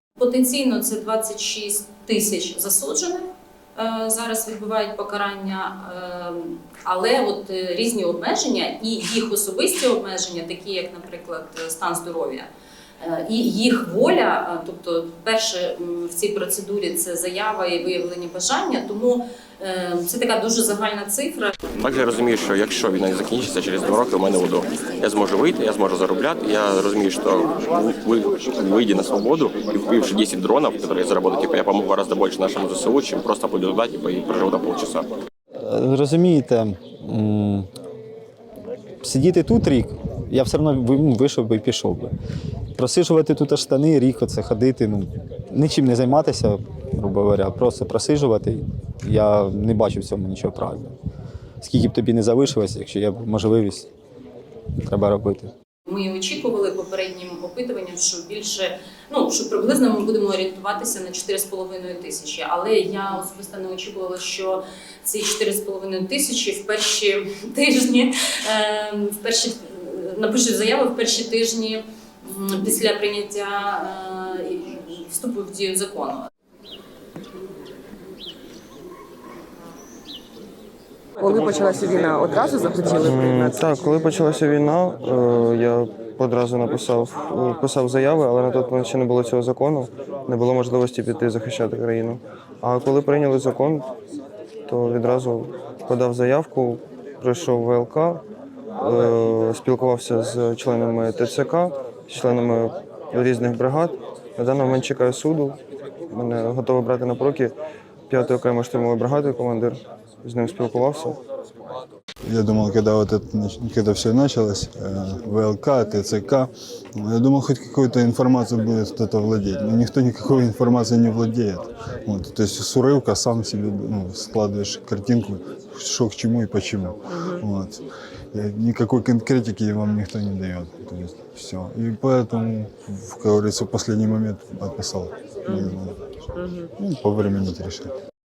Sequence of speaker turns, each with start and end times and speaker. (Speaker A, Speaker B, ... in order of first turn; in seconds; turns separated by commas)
Speaker A: 0.2-12.5, Speaker A: 13.1-21.5, Speaker B: 21.8-35.1, Speaker C: 35.6-37.7, Speaker C: 39.0-42.1, Speaker C: 42.8-50.9, Speaker C: 51.6-53.9, Speaker C: 54.8-55.5, Speaker A: 55.9-76.2, Speaker D: 81.2-83.7, Speaker E: 83.0-93.9, Speaker E: 94.7-98.2, Speaker E: 98.8-105.6, Speaker E: 106.1-107.5, Speaker E: 108.1-111.2, Speaker F: 112.2-136.0, Speaker D: 135.5-135.7, Speaker D: 136.3-136.7, Speaker F: 136.8-137.9